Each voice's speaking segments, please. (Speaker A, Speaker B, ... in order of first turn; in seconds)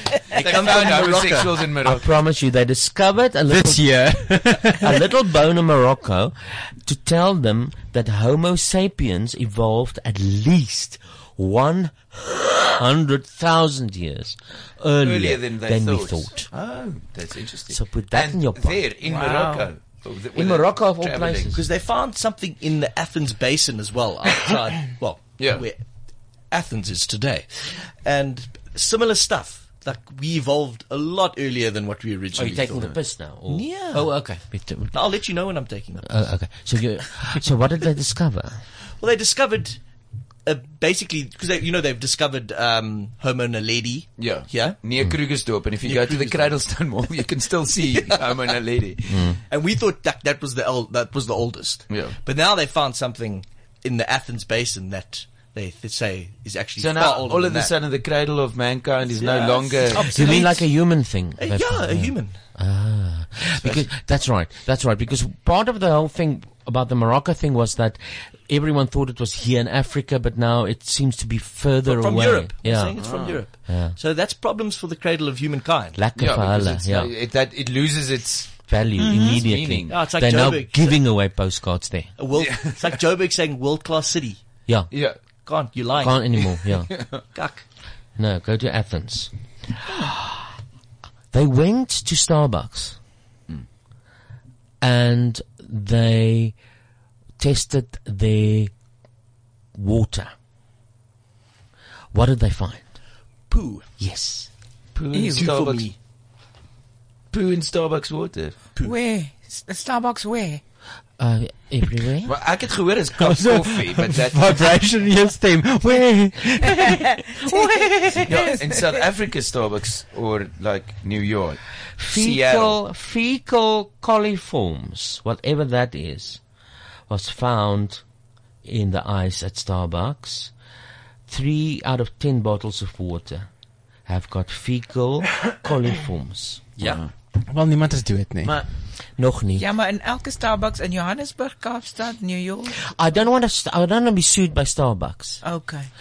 Speaker A: 0.3-2.1, 15.0-21.6, 25.4-25.7, 44.1-49.3, 51.9-52.2, 56.8-60.6, 72.9-73.5, 76.2-80.0, 82.3-83.0, 84.9-85.2, 86.9-87.2, 104.9-105.9, 107.3-108.6, 112.2-114.6, 118.2-122.8, 136.8-137.1
Speaker B: 0.3-1.6, 21.5-34.4, 34.9-36.5, 39.0-39.9, 40.4-44.9, 45.8-46.6, 47.9-48.2, 49.5-57.7, 59.1-62.4, 71.8-76.0, 79.9-81.1, 82.2-84.5, 85.5-86.5, 87.3-87.7, 103.5-103.9, 105.1-106.0
Speaker C: 1.8-16.5, 17.7-18.9, 20.4-21.6, 32.4-34.9, 36.0-38.6, 49.1-49.4, 60.0-74.0, 75.9-77.1, 78.7-82.1, 84.7-84.9, 86.0-87.0, 88.2-89.3, 91.3-93.0, 94.8-96.6, 97.4-98.7, 99.8-100.3, 102.1-102.9, 104.0-104.5, 111.2-112.3, 122.0-126.4, 127.1-128.0, 128.6-130.5, 131.3-133.5, 134.1-136.7, 139.2-139.7, 142.9-145.4
Speaker D: 3.5-4.9, 113.2-118.0, 137.5-138.5
Speaker E: 19.1-19.7, 79.0-79.4, 108.8-110.6, 117.4-119.0, 139.6-142.8, 145.4-145.9